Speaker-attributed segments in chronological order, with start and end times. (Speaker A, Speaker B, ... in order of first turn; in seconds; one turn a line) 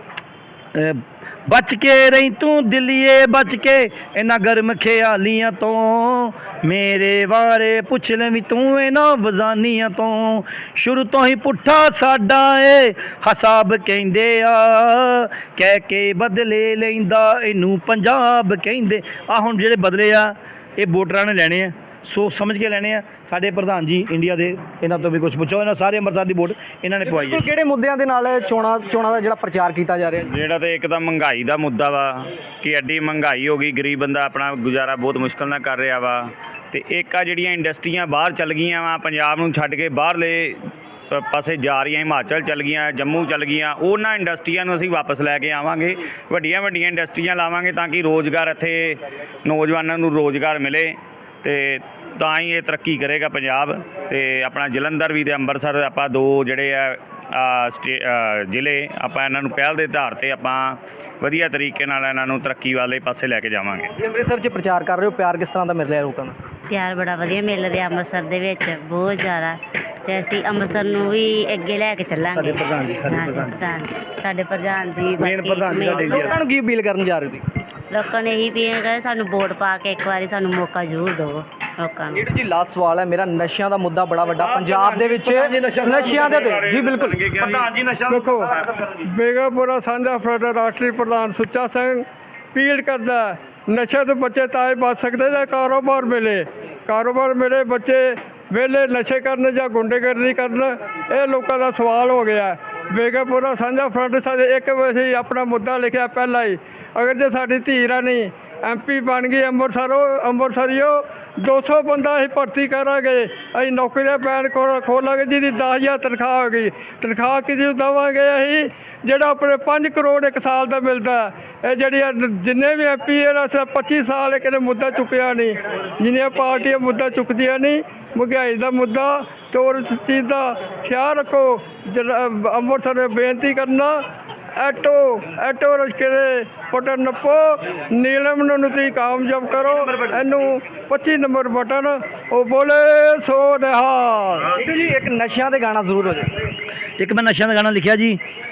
Speaker A: 0.7-27.4
Speaker B: 27.1-30.3
Speaker C: 30.3-40.6
Speaker C: 41.1-63.9
Speaker B: 64.0-66.4
Speaker D: 66.7-76.3
Speaker A: 72.3-73.6
Speaker A: 75.2-76.4
Speaker B: 75.9-77.5
Speaker D: 77.9-82.2
Speaker B: 82.1-87.6
Speaker A: 84.4-86.7
Speaker C: 86.1-87.7
Speaker A: 87.4-89.1
Speaker E: 88.1-88.5
Speaker E: 89.0-134.0
Speaker E: 134.6-144.5
Speaker B: 144.5-146.3
Speaker A: 147.0-148.2